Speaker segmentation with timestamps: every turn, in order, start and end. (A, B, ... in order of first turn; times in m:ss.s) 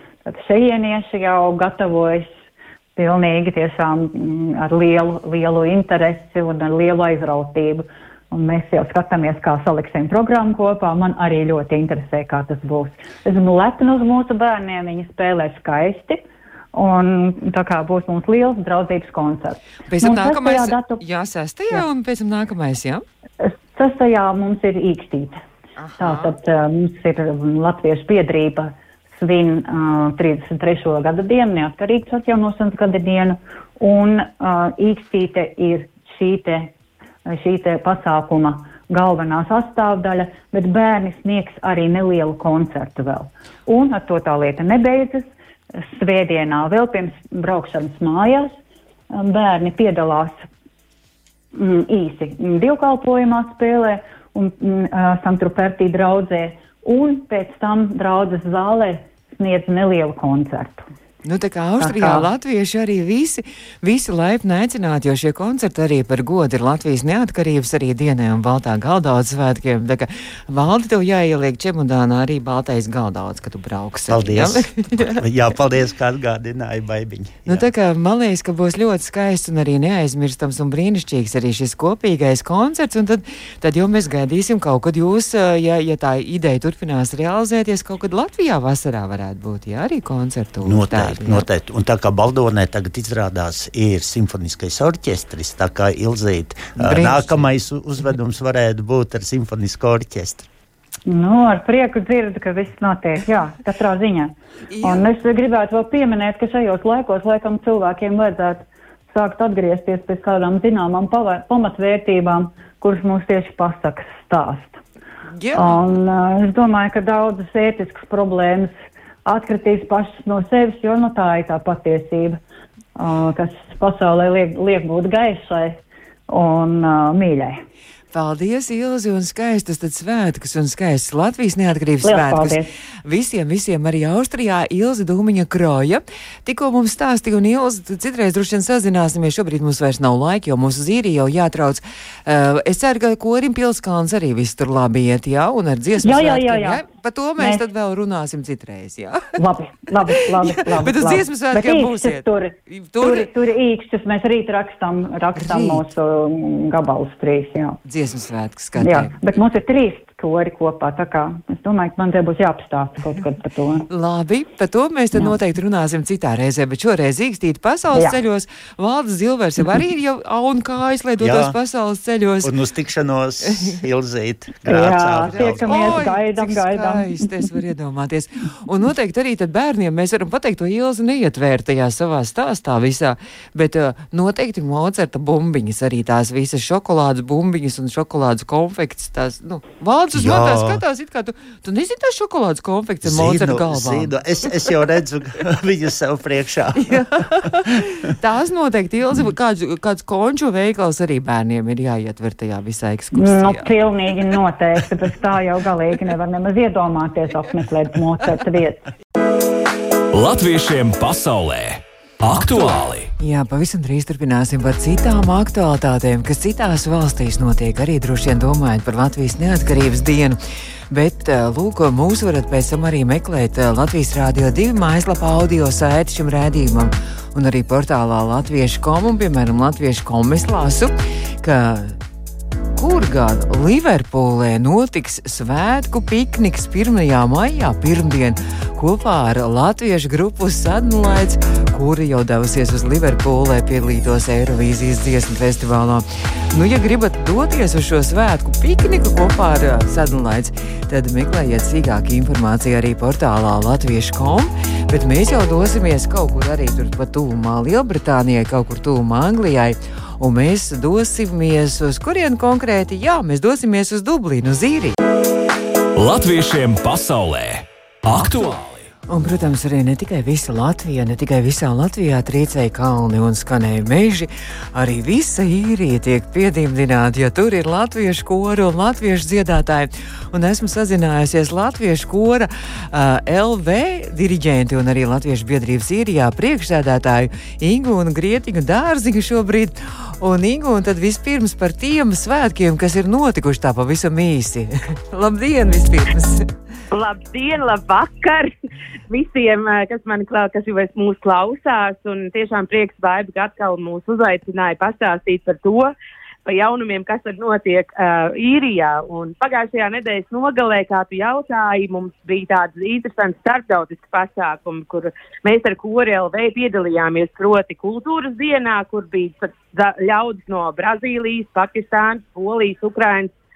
0:00.2-0:02.3 A
0:03.0-0:16.2 A
0:16.7-0:21.0 A
0:19.9-0:23.0 B
0:23.4-0:25.4 A
0:25.8-0:26.3 B
0:26.0-0:36.7 A
0:37.3-0:48.6 A
0:49.1-0:50.5 A
0:51.5-1:00.9 A
1:01.2-1:15.2 B
1:01.8-1:02.3 A
1:14.1-1:17.7 C
1:17.5-1:31.5 B
1:30.6-1:40.5 C
1:36.8-1:37.5 B
1:41.1-1:54.8 A
1:44.7-1:45.1 B
1:55.4-1:55.8 B
1:55.6-1:58.7 A
1:59.2-2:02.4 A
2:03.0-2:07.6 A
2:08.1-2:29.4 B
2:12.0-2:12.7 A
2:26.0-2:26.8 A
2:29.4-2:37.8 A
2:30.1-2:33.3 B
2:35.4-2:35.8 B
2:37.9-2:39.2 B
2:38.8-2:43.9 A
2:43.9-2:52.5 B
2:51.2-2:51.6 C
2:52.4-2:56.1 C
2:54.7-2:57.4 A
2:55.3-3:14.1 B
3:10.1-3:10.8 C
3:13.0-3:17.0 C
3:16.8-3:23.7 B
3:23.2-3:28.9 A
3:30.1-3:33.1 D
3:33.2-3:40.4 B
3:40.9-3:52.0 B
3:52.8-4:25.0 B
4:26.0-4:28.9 D
4:29.1-4:56.5 B
4:56.9-4:58.5 E
4:59.1-5:05.9 E
5:06.4-5:23.3 E